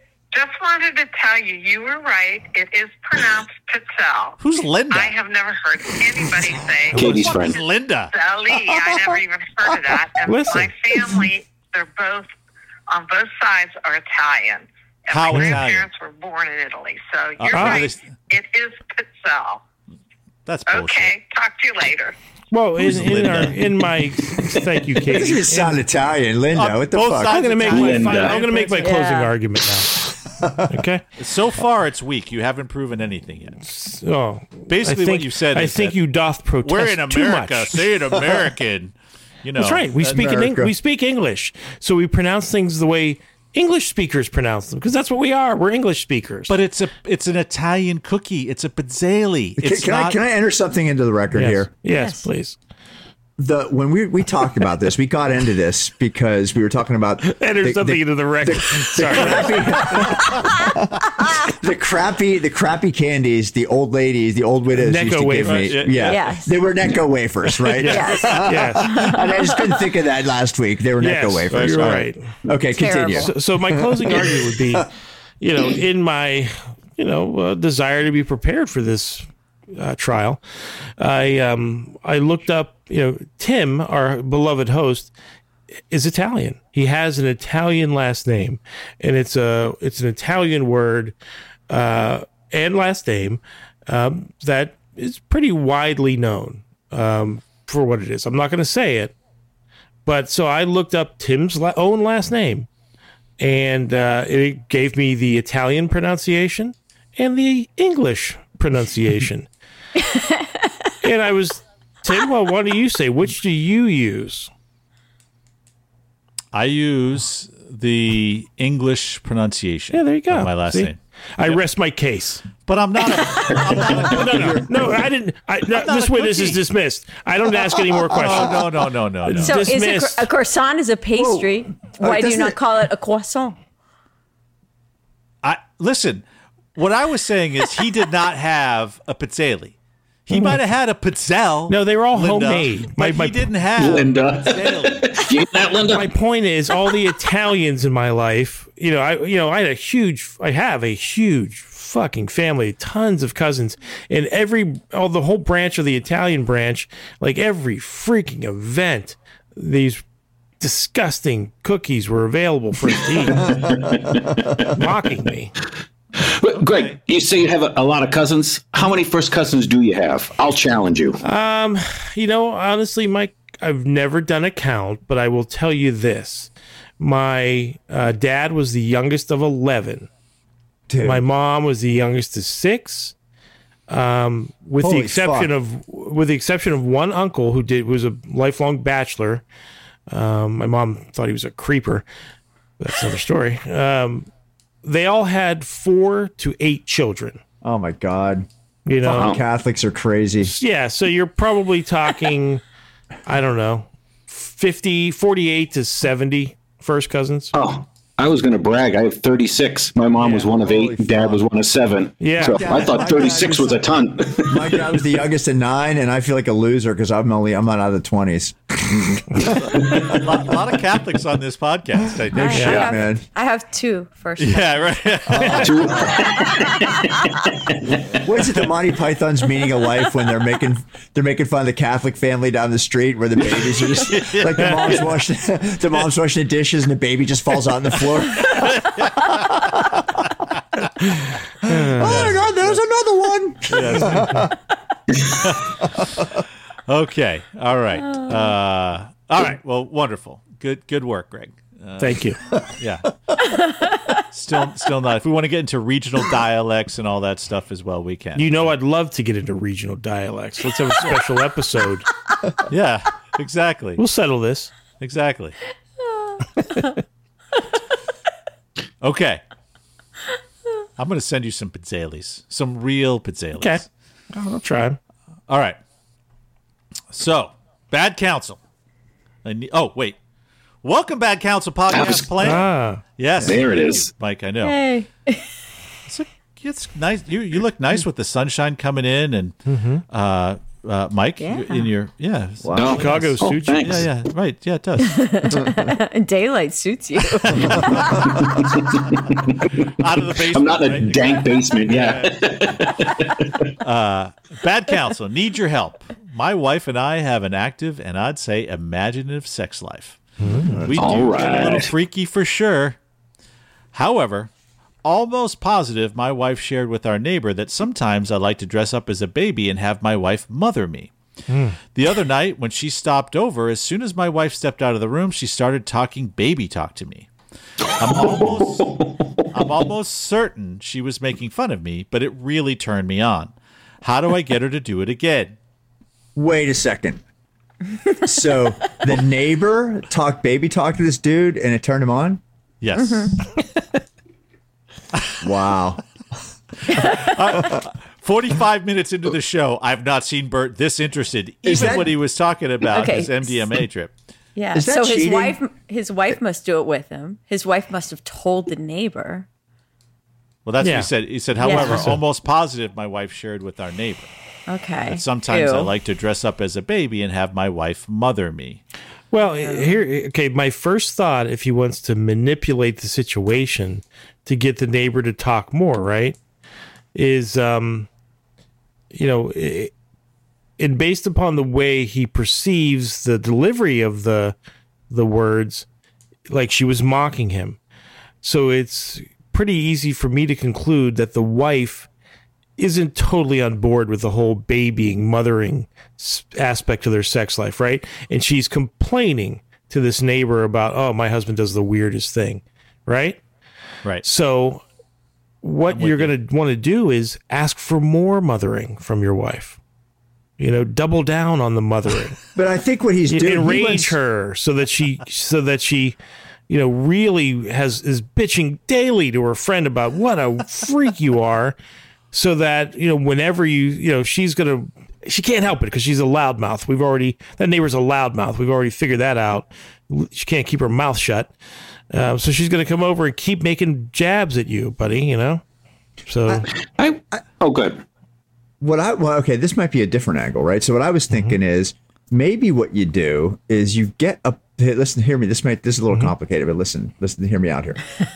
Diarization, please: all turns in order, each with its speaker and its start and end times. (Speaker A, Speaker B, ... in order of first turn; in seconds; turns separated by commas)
Speaker A: 0.3-4.4, Speaker B: 4.4-5.2, Speaker A: 4.9-12.3, Speaker C: 6.9-7.4, Speaker D: 6.9-7.6, Speaker B: 6.9-8.1, Speaker C: 10.2-10.7, Speaker A: 12.9-19.6, Speaker B: 15.1-15.9, Speaker C: 15.3-15.6, Speaker B: 17.4-18.1, Speaker C: 17.5-17.9, Speaker B: 20.5-21.1, Speaker A: 20.7-22.1, Speaker C: 22.5-25.8, Speaker B: 22.8-23.6, Speaker E: 25.1-27.6, Speaker B: 26.6-29.0, Speaker C: 27.3-29.9, Speaker D: 27.7-28.4, Speaker F: 28.8-29.3, Speaker E: 30.4-30.7, Speaker C: 30.7-31.0, Speaker B: 31.2-33.6, Speaker C: 33.7-37.8, Speaker B: 34.7-36.0, Speaker B: 36.6-38.9, Speaker B: 39.4-40.2, Speaker C: 39.6-46.5, Speaker E: 40.0-40.7, Speaker B: 46.5-50.2, Speaker E: 49.6-51.7, Speaker C: 51.3-52.6, Speaker F: 51.9-52.3, Speaker E: 53.4-74.9, Speaker C: 57.2-60.1, Speaker C: 64.8-65.8, Speaker B: 65.4-66.2, Speaker F: 66.0-66.6, Speaker C: 67.7-69.1, Speaker F: 67.8-69.8, Speaker C: 71.0-72.3, Speaker B: 71.5-72.0, Speaker F: 72.7-73.3, Speaker C: 73.1-74.9, Speaker C: 75.4-80.4, Speaker C: 81.0-85.1, Speaker C: 85.9-91.1, Speaker C: 91.7-99.1, Speaker C: 100.1-102.7, Speaker C: 103.4-109.5, Speaker F: 110.1-110.5, Speaker C: 111.0-114.5, Speaker B: 116.5-121.6, Speaker C: 119.9-122.4, Speaker B: 122.7-124.6, Speaker E: 123.9-125.0, Speaker C: 124.0-128.6, Speaker B: 125.7-126.6, Speaker B: 128.1-129.7, Speaker C: 129.3-130.3, Speaker F: 129.3-133.6, Speaker E: 131.2-132.6, Speaker B: 135.4-136.2, Speaker B: 136.8-139.8, Speaker B: 140.3-145.3, Speaker C: 140.3-140.6, Speaker C: 141.7-143.5, Speaker D: 143.8-146.1, Speaker C: 145.9-160.0, Speaker C: 160.6-163.7, Speaker D: 163.2-164.7, Speaker C: 164.6-165.5, Speaker D: 166.2-171.2, Speaker B: 166.6-167.0, Speaker C: 171.2-180.1, Speaker E: 180.9-181.2, Speaker C: 181.0-183.1, Speaker C: 183.9-189.4, Speaker E: 184.8-185.5, Speaker C: 190.1-192.1, Speaker C: 192.8-194.3, Speaker C: 194.8-197.4, Speaker E: 197.6-198.5, Speaker C: 198.9-199.4, Speaker E: 199.0-200.6, Speaker D: 199.1-199.4, Speaker C: 200.4-202.6, Speaker C: 203.3-207.5, Speaker D: 207.5-214.7, Speaker E: 210.4-211.5, Speaker C: 212.2-212.7, Speaker E: 212.4-220.2, Speaker B: 219.7-222.9, Speaker E: 222.3-223.2, Speaker F: 222.3-224.9, Speaker C: 222.5-222.9, Speaker B: 224.4-226.2, Speaker E: 225.3-226.3, Speaker D: 225.6-228.2, Speaker E: 228.1-238.7, Speaker B: 233.9-235.1, Speaker B: 238.4-239.7, Speaker E: 241.6-244.5, Speaker C: 241.7-242.2, Speaker B: 242.0-242.8, Speaker B: 243.7-244.5, Speaker C: 244.0-244.4, Speaker B: 245.4-246.2, Speaker B: 246.9-253.2, Speaker C: 252.0-252.4, Speaker F: 253.4-253.9, Speaker B: 254.3-258.7, Speaker C: 258.4-262.1, Speaker B: 262.7-264.0, Speaker C: 264.0-264.7, Speaker B: 265.0-265.6, Speaker B: 269.0-269.4, Speaker B: 271.0-273.9, Speaker C: 274.3-275.0, Speaker B: 275.5-275.8, Speaker B: 277.1-278.6, Speaker B: 279.4-280.2, Speaker B: 280.8-282.7, Speaker D: 281.9-282.6, Speaker C: 282.4-283.0, Speaker B: 283.2-284.8, Speaker D: 283.4-284.1, Speaker F: 284.6-285.5, Speaker B: 286.1-289.6, Speaker C: 289.7-290.0, Speaker B: 290.1-295.6, Speaker F: 291.4-291.9, Speaker E: 292.6-293.0, Speaker D: 292.8-294.1, Speaker C: 292.9-294.1, Speaker F: 295.0-298.4, Speaker B: 297.4-298.4, Speaker D: 298.2-303.7, Speaker B: 299.9-303.0, Speaker B: 303.8-310.3, Speaker C: 310.4-310.8, Speaker E: 310.5-311.2, Speaker B: 310.9-313.0, Speaker D: 310.9-311.9, Speaker B: 313.9-314.5, Speaker B: 315.0-321.1, Speaker C: 321.5-321.8, Speaker B: 321.9-327.3, Speaker B: 327.9-335.6, Speaker D: 328.0-329.2, Speaker E: 336.4-337.2, Speaker E: 338.2-342.4, Speaker B: 342.8-343.4, Speaker F: 342.9-343.4, Speaker E: 345.4-346.0, Speaker F: 346.9-347.7, Speaker B: 346.9-354.1, Speaker E: 351.6-352.1, Speaker F: 352.8-353.6, Speaker F: 354.6-359.5, Speaker E: 354.7-355.6, Speaker B: 360.6-364.3, Speaker C: 360.8-361.1, Speaker F: 361.6-362.1, Speaker C: 361.6-362.2, Speaker F: 364.7-365.9, Speaker B: 365.1-368.8, Speaker C: 369.3-376.4, Speaker F: 369.6-370.0, Speaker C: 377.1-378.1, Speaker C: 379.1-379.9, Speaker C: 380.8-384.6, Speaker C: 385.1-385.9, Speaker C: 386.5-387.8, Speaker C: 388.4-392.1, Speaker C: 392.8-403.4, Speaker C: 404.2-404.8, Speaker C: 405.6-409.8, Speaker B: 405.9-406.3, Speaker C: 410.6-412.4, Speaker E: 412.6-414.2, Speaker C: 413.3-416.2, Speaker C: 416.7-421.8, Speaker C: 422.3-431.5, Speaker C: 432.1-435.6, Speaker C: 436.3-436.7, Speaker D: 437.0-438.0, Speaker E: 438.8-448.0, Speaker C: 441.3-441.6